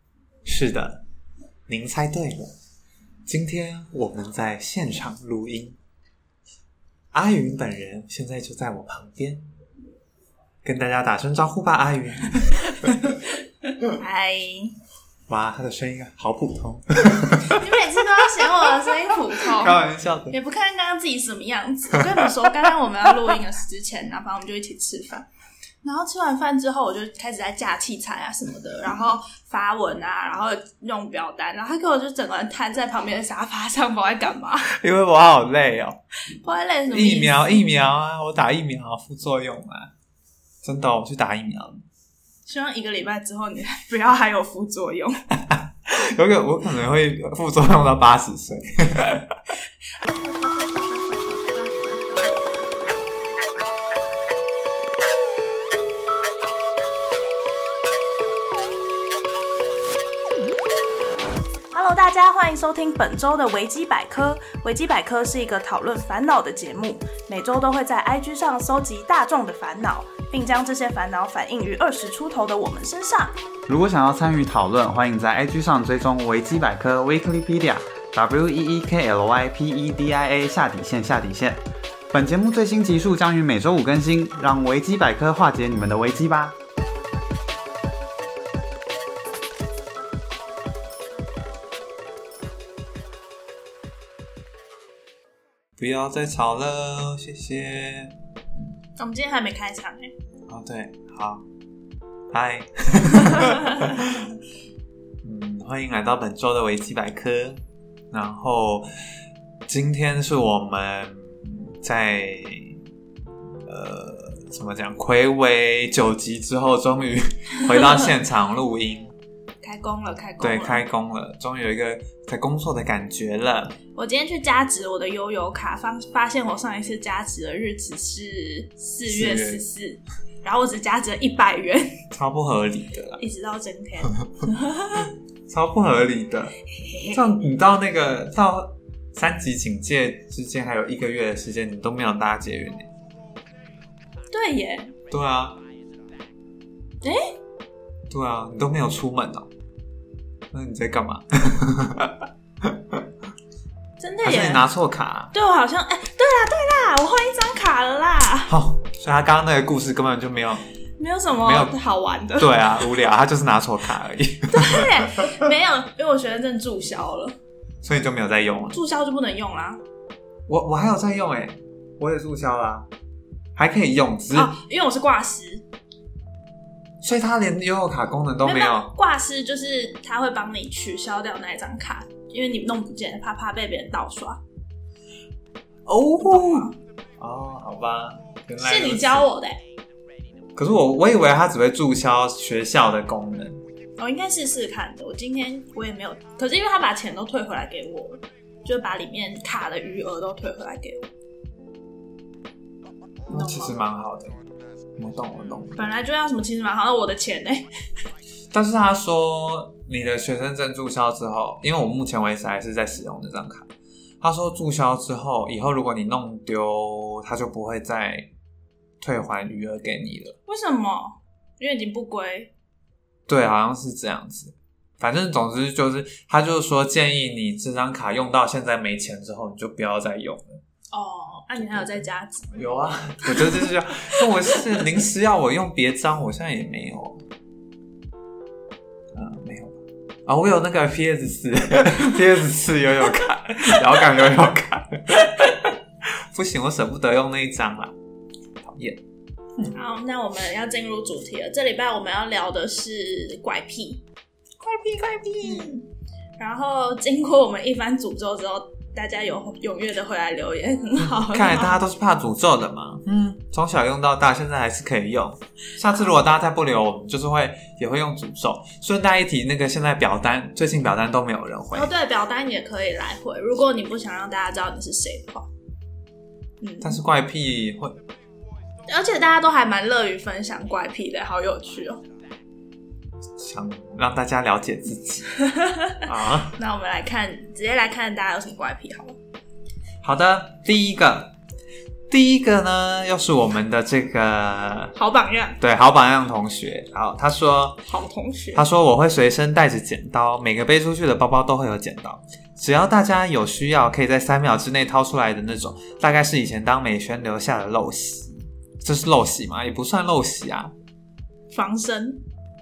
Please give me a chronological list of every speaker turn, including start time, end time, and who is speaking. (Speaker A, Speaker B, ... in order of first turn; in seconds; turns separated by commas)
Speaker A: 0.4-1.0, Speaker A: 1.7-2.5, Speaker A: 3.2-5.8, Speaker A: 7.1-9.5, Speaker A: 10.6-13.0, Speaker B: 13.8-14.8, Speaker A: 15.3-17.7, Speaker B: 17.4-25.3, Speaker A: 19.1-20.4, Speaker B: 25.8-34.7, Speaker A: 34.6-36.0, Speaker B: 36.3-37.6, Speaker A: 36.9-39.9, Speaker A: 40.6-41.8, Speaker B: 42.5-45.2, Speaker A: 45.3-49.4, Speaker B: 61.7-73.3, Speaker C: 73.7-86.6, Speaker A: 95.8-98.1, Speaker B: 99.0-100.1, Speaker A: 100.5-101.5, Speaker A: 102.3-104.3, Speaker A: 105.2-108.9, Speaker A: 109.7-112.8, Speaker A: 113.7-119.2, Speaker B: 119.6-120.8, Speaker A: 120.4-123.8, Speaker B: 123.9-132.0, Speaker A: 129.1-129.6, Speaker A: 132.1-133.2, Speaker B: 133.2-135.1, Speaker A: 135.5-142.9, Speaker B: 136.8-137.2, Speaker B: 144.3-144.9, Speaker A: 145.1-145.6, Speaker B: 147.0-147.3, Speaker A: 148.1-149.5, Speaker A: 150.5-153.0, Speaker B: 154.0-154.6, Speaker A: 154.2-155.3, Speaker B: 155.3-158.5, Speaker A: 158.5-160.7, Speaker B: 161.0-162.8, Speaker A: 161.4-161.7, Speaker A: 162.4-165.3, Speaker B: 164.5-167.4, Speaker A: 167.8-168.8, Speaker B: 168.7-169.8, Speaker A: 170.5-172.9, Speaker A: 173.6-174.5, Speaker B: 174.3-175.7, Speaker A: 177.0-178.9, Speaker B: 178.4-184.4, Speaker A: 185.9-189.3, Speaker B: 186.2-186.8, Speaker B: 188.6-189.6, Speaker A: 190.6-193.6, Speaker B: 194.0-201.1, Speaker A: 203.3-204.4, Speaker B: 203.3-203.7, Speaker A: 205.0-205.8, Speaker B: 205.8-207.7, Speaker A: 208.5-213.7, Speaker A: 214.2-218.3, Speaker A: 219.0-220.4, Speaker B: 220.5-222.5, Speaker A: 223.3-230.6, Speaker B: 230.9-232.5, Speaker A: 231.6-237.2, Speaker B: 233.2-234.7, Speaker A: 239.1-245.8, Speaker A: 246.3-247.9, Speaker A: 248.6-249.0, Speaker B: 249.7-254.0, Speaker B: 254.7-255.9, Speaker A: 254.9-255.6, Speaker B: 256.4-261.8, Speaker A: 261.0-271.9, Speaker B: 271.7-275.5, Speaker B: 276.6-277.0, Speaker A: 276.8-277.9, Speaker B: 278.9-282.0, Speaker A: 283.4-285.3, Speaker B: 285.3-286.0, Speaker A: 286.0-286.6, Speaker B: 286.5-289.2, Speaker A: 290.0-291.3, Speaker A: 292.1-294.9, Speaker B: 294.9-295.6, Speaker A: 295.6-297.8, Speaker B: 297.9-298.6, Speaker A: 298.6-310.7, Speaker B: 311.5-312.2